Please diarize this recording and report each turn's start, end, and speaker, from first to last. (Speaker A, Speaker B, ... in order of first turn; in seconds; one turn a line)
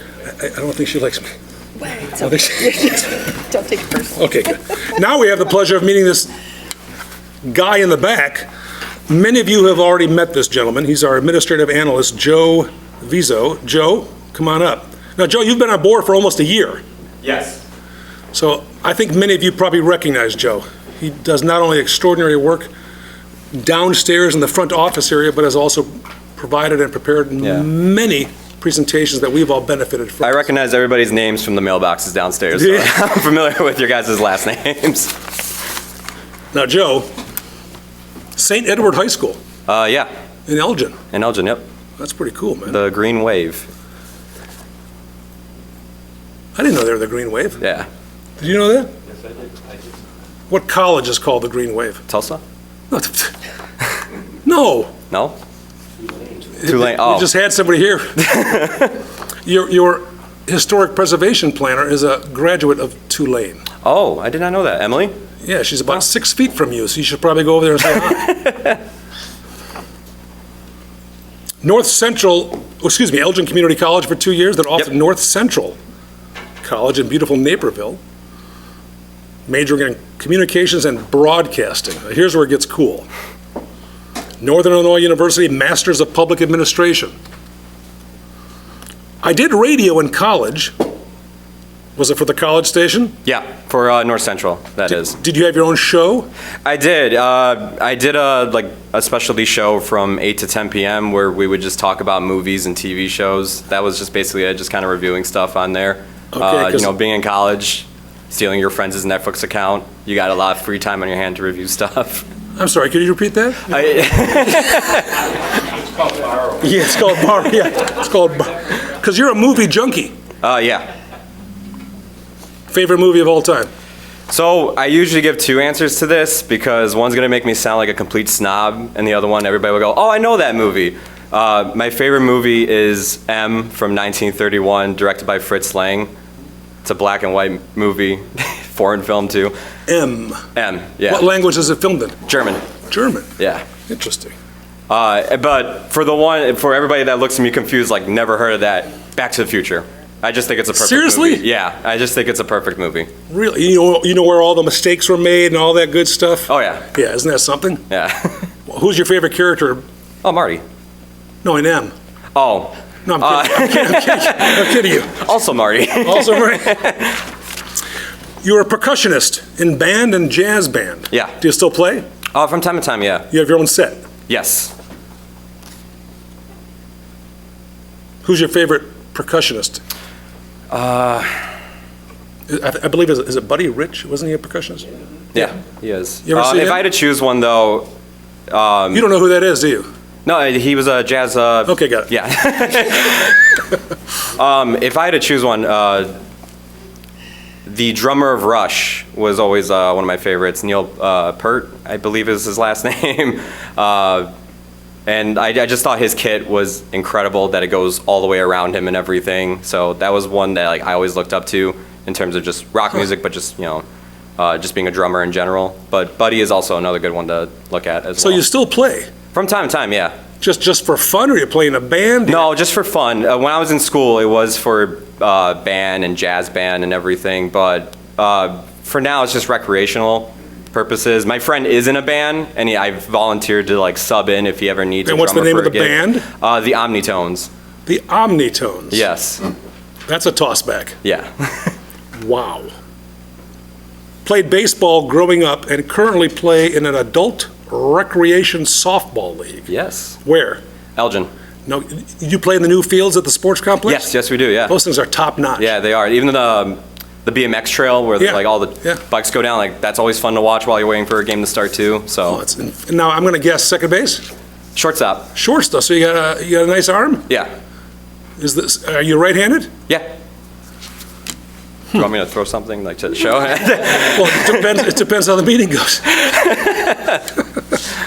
Speaker A: 0.3-1.2
Speaker B: 1.9-4.2
Speaker A: 2.1-3.3
Speaker A: 4.2-6.3
Speaker A: 7.5-8.5
Speaker A: 9.1-16.8
Speaker C: 17.2-17.6
Speaker A: 18.3-22.7
Speaker A: 23.5-30.5
Speaker C: 27.4-27.7
Speaker C: 30.2-35.1
Speaker A: 32.5-33.0
Speaker A: 36.5-37.1
Speaker A: 38.4-39.4
Speaker C: 39.7-40.1
Speaker A: 40.5-41.0
Speaker C: 41.1-41.6
Speaker A: 42.0-42.8
Speaker C: 42.6-43.7
Speaker A: 46.5-47.6
Speaker C: 47.6-47.9
Speaker A: 48.4-48.9
Speaker A: 50.5-52.0
Speaker C: 52.1-52.4
Speaker A: 52.9-53.3
Speaker A: 54.4-55.0
Speaker C: 55.1-55.4
Speaker A: 56.6-58.5
Speaker C: 56.6-57.3
Speaker C: 58.2-59.0
Speaker A: 59.4-63.6
Speaker C: 63.8-65.1
Speaker A: 65.4-68.3
Speaker C: 67.9-68.8
Speaker A: 71.6-75.8
Speaker A: 76.6-78.0
Speaker A: 79.5-83.1
Speaker A: 84.4-87.1
Speaker A: 89.2-90.7
Speaker A: 92.0-93.2
Speaker C: 93.2-95.2
Speaker A: 94.9-96.3
Speaker C: 96.6-112.2
Speaker A: 106.3-106.9
Speaker A: 112.6-113.7
Speaker C: 113.7-115.3
Speaker A: 116.6-120.1
Speaker C: 120.4-120.9
Speaker A: 122.7-123.7
Speaker C: 124.3-136.1
Speaker C: 136.8-139.5
Speaker A: 139.9-140.4
Speaker C: 140.5-141.3
Speaker A: 141.0-142.2
Speaker C: 142.2-142.7
Speaker A: 142.9-143.3
Speaker C: 143.4-143.7
Speaker A: 143.9-144.3
Speaker C: 144.9-153.1
Speaker A: 150.7-151.4
Speaker A: 153.3-157.8
Speaker C: 156.5-156.9
Speaker C: 157.9-158.5
Speaker A: 158.7-159.8
Speaker C: 160.2-160.6
Speaker A: 161.4-161.9
Speaker C: 162.3-167.2
Speaker A: 163.1-165.2
Speaker A: 166.0-166.8
Speaker A: 168.4-172.0
Speaker C: 171.1-171.4
Speaker C: 172.3-173.3
Speaker A: 173.3-174.0
Speaker C: 174.3-174.7
Speaker A: 178.2-179.8
Speaker C: 180.7-181.4
Speaker A: 182.5-184.8
Speaker C: 185.3-187.9
Speaker A: 186.2-186.9
Speaker C: 188.5-189.1
Speaker A: 188.9-189.9
Speaker C: 190.2-193.5
Speaker A: 191.7-192.1
Speaker C: 194.3-196.1
Speaker C: 197.7-204.3
Speaker C: 205.1-213.8
Speaker C: 214.4-218.4
Speaker A: 218.2-219.1
Speaker C: 219.3-220.2
Speaker A: 220.4-222.5
Speaker C: 222.2-237.5
Speaker A: 235.1-236.2
Speaker A: 237.8-239.0
Speaker C: 238.9-239.4
Speaker A: 240.1-240.9
Speaker C: 241.0-241.8
Speaker A: 242.2-242.7
Speaker A: 244.2-249.7
Speaker C: 249.7-250.2
Speaker A: 250.2-250.6
Speaker C: 250.9-251.3
Speaker A: 251.7-254.1
Speaker C: 253.8-254.8
Speaker A: 254.7-255.7
Speaker C: 255.6-262.4
Speaker A: 258.2-259.0
Speaker A: 262.2-264.2
Speaker C: 264.7-265.3
Speaker A: 265.3-267.3
Speaker A: 268.4-269.7
Speaker C: 271.9-274.9
Speaker A: 274.1-276.2
Speaker C: 276.1-277.2